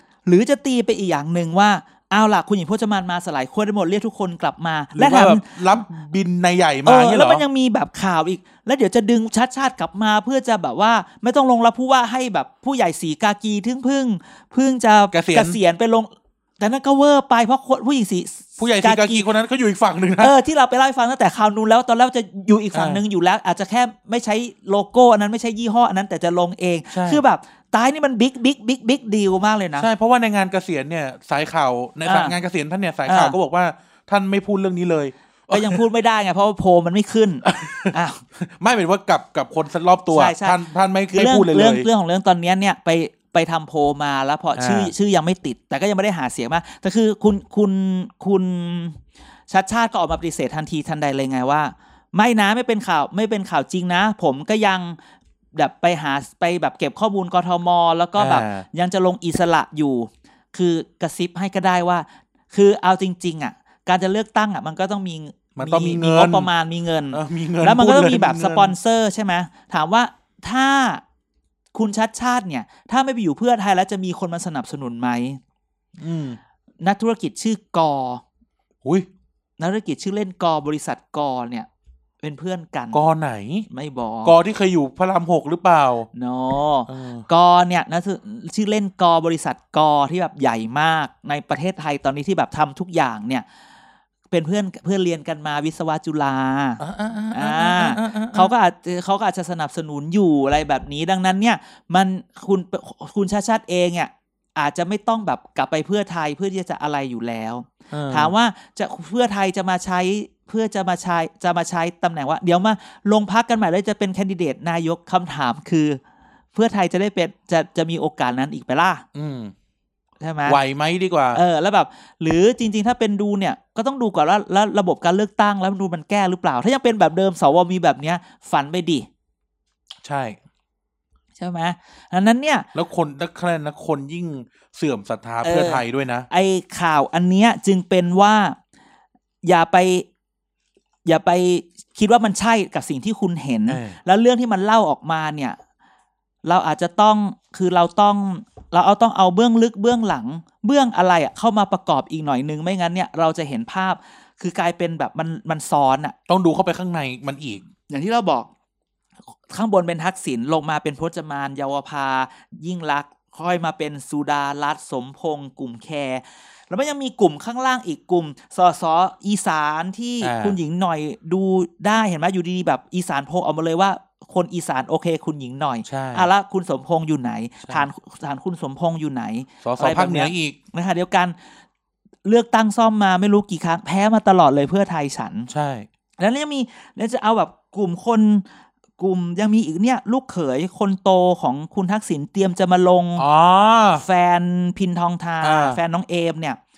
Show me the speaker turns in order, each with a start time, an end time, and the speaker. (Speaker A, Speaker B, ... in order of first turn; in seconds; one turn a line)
Speaker A: 0.3-5.8
Speaker B: 5.0-7.5
Speaker A: 6.8-19.3
Speaker B: 15.1-15.6
Speaker B: 18.6-20.3
Speaker A: 20.2-29.9
Speaker B: 22.7-23.0
Speaker B: 26.9-27.2
Speaker B: 29.8-35.8
Speaker A: 32.0-32.4
Speaker A: 33.1-33.4
Speaker A: 35.5-38.2
Speaker B: 37.5-41.9
Speaker A: 40.1-40.6
Speaker A: 41.1-55.0
Speaker B: 44.6-44.9
Speaker A: 55.6-71.0
Speaker B: 58.2-58.6
Speaker B: 65.6-66.5
Speaker B: 67.1-68.8
Speaker A: 71.7-75.4
Speaker B: 76.0-76.4
Speaker A: 76.8-78.2
Speaker A: 79.6-81.7
Speaker A: 82.2-83.0
Speaker B: 82.9-83.7
Speaker A: 83.7-84.3
Speaker B: 84.2-86.1
Speaker A: 86.2-93.5
Speaker B: 86.9-87.3
Speaker A: 94.3-96.8
Speaker B: 96.8-98.5
Speaker A: 97.3-116.0
Speaker B: 107.9-108.3
Speaker A: 116.5-119.0
Speaker B: 119.2-119.5
Speaker A: 120.2-120.6
Speaker B: 120.5-121.4
Speaker A: 121.3-129.1
Speaker B: 130.0-130.4
Speaker A: 131.4-132.7
Speaker B: 132.8-136.3
Speaker A: 135.4-138.6
Speaker A: 139.4-140.1
Speaker A: 141.1-145.6
Speaker B: 143.7-144.0
Speaker A: 146.4-156.2
Speaker B: 156.3-157.7
Speaker A: 157.9-158.5
Speaker A: 159.5-181.4
Speaker B: 170.2-170.6
Speaker B: 175.8-176.3
Speaker B: 179.6-180.6
Speaker A: 182.2-185.5
Speaker B: 185.5-185.9
Speaker A: 186.2-188.4
Speaker A: 189.0-193.2
Speaker B: 193.2-194.1
Speaker A: 193.9-196.6
Speaker B: 195.4-195.8